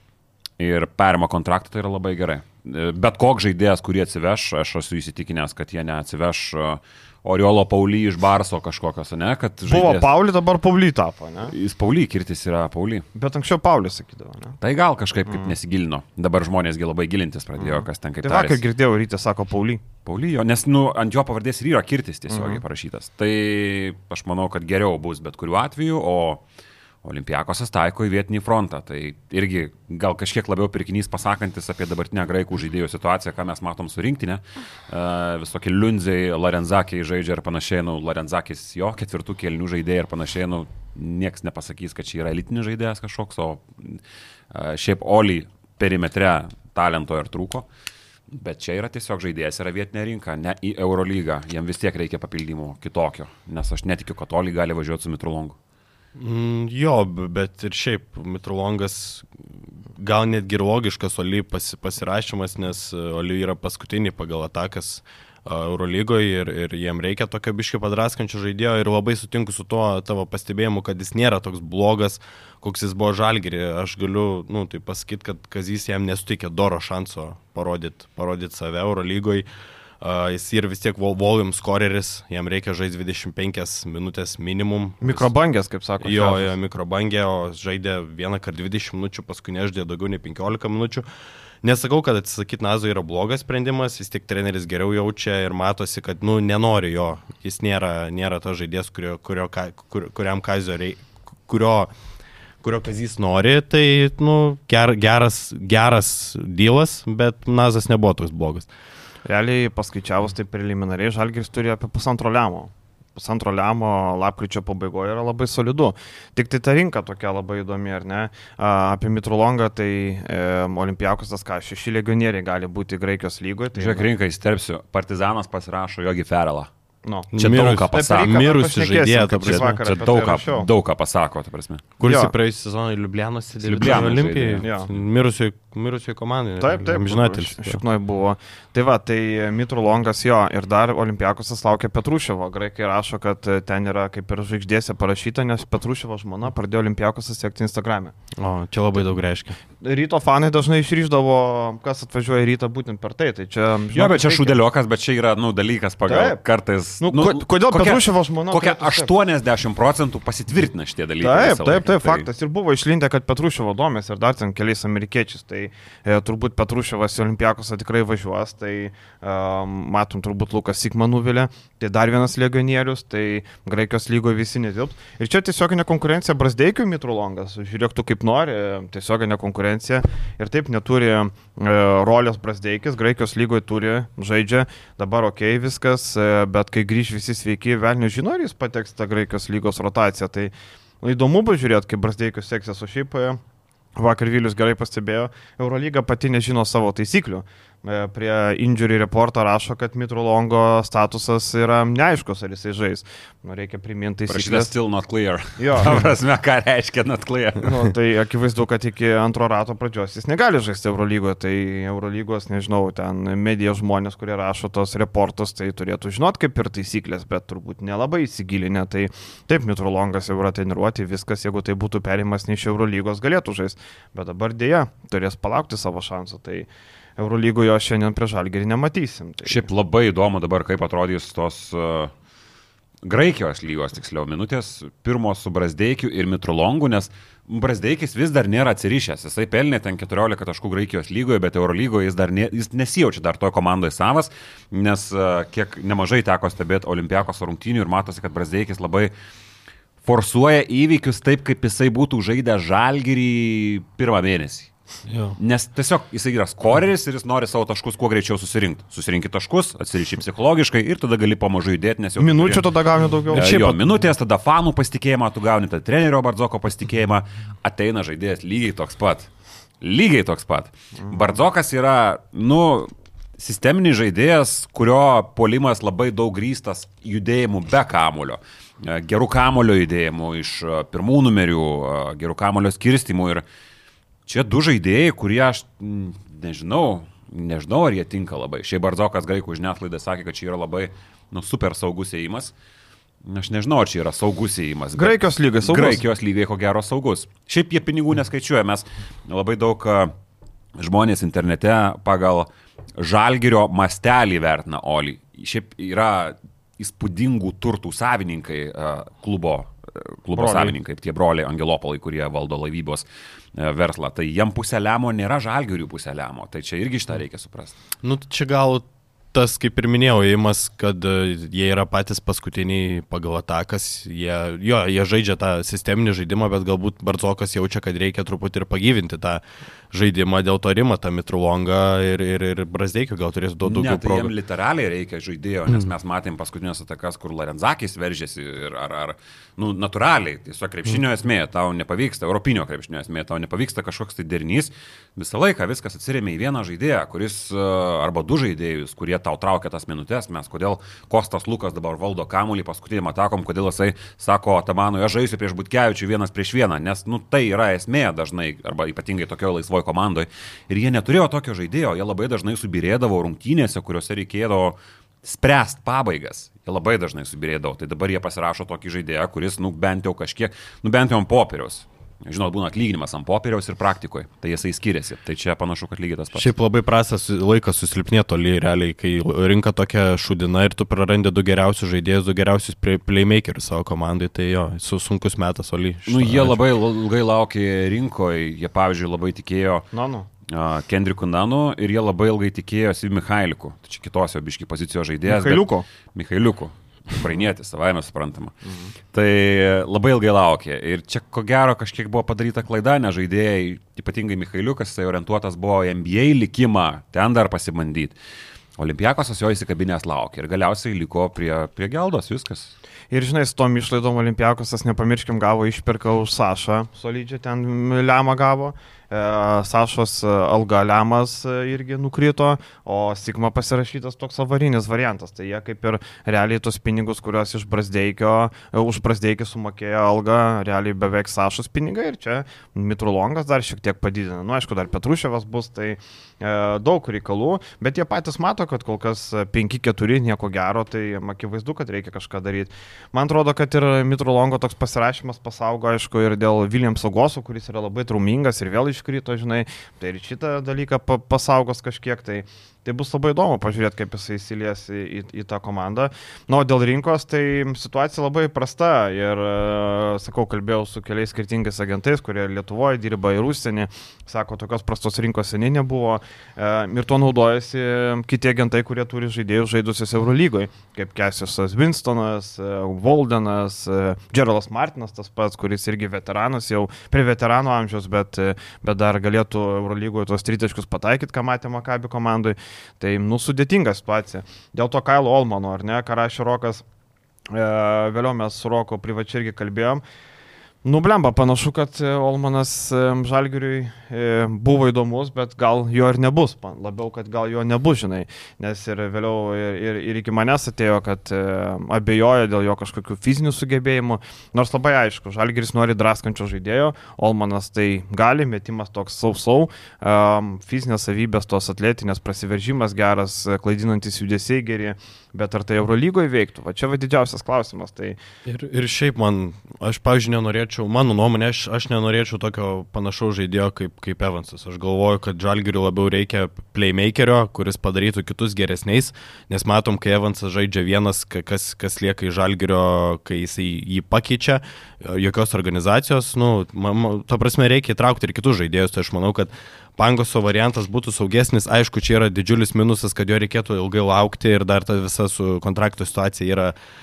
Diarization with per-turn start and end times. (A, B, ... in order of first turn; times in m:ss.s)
0:00.6-0:10.1 A
0:09.7-0:11.5 B
0:11.5-0:13.1 A
0:13.2-0:14.6 B
0:14.6-0:18.6 A
0:15.3-0:15.5 B
0:17.6-0:19.8 B
0:20.0-0:26.4 A
0:22.3-0:22.6 B
0:27.0-0:47.7 A
0:48.3-0:55.6 A
0:56.2-1:19.5 C
1:20.0-1:25.3 C
1:25.0-1:26.5 B
1:26.0-1:31.0 C
1:31.6-1:41.9 C
1:42.6-1:48.7 C
1:49.2-2:04.0 B
2:03.8-2:06.7 A
2:07.1-2:07.3 B
2:07.3-2:09.8 C
2:07.4-2:08.5 A
2:07.9-2:10.7 B
2:09.4-2:11.9 A
2:12.0-2:17.8 C
2:12.0-2:12.3 B
2:13.6-2:14.7 A
2:14.6-2:14.9 B
2:16.6-2:28.1 B
2:28.4-2:29.6 C
2:29.8-2:34.6 B
2:34.0-2:42.3 A
2:36.1-2:36.4 B
2:37.0-2:39.1 B
2:41.2-3:13.4 B
3:14.0-3:24.7 B
3:24.3-3:27.8 A
3:25.6-3:26.0 B
3:27.6-3:49.7 B
3:49.4-3:52.1 A
3:53.0-4:09.1 A
4:10.0-4:14.7 A
4:15.1-4:15.4 C
4:15.4-4:22.7 A
4:22.2-4:23.8 B
4:23.3-4:29.3 A
4:29.8-4:43.4 A
4:31.0-4:31.3 B
4:44.3-4:52.5 A
4:53.2-5:00.1 A
4:55.0-4:56.0 B
5:00.8-5:17.8 A
5:10.4-5:10.8 B
5:18.0-5:34.3 C
5:33.6-6:16.5 A
6:16.3-6:26.6 C
6:26.1-6:29.9 A
6:29.9-6:30.3 B
6:30.5-6:38.5 A
6:35.3-6:35.9 B
6:38.6-6:38.9 B
6:39.1-6:48.2 A
6:48.8-6:52.7 A
6:53.1-8:06.8 B
8:07.5-8:10.0 B
8:10.8-8:38.2 B
8:38.5-9:06.7 C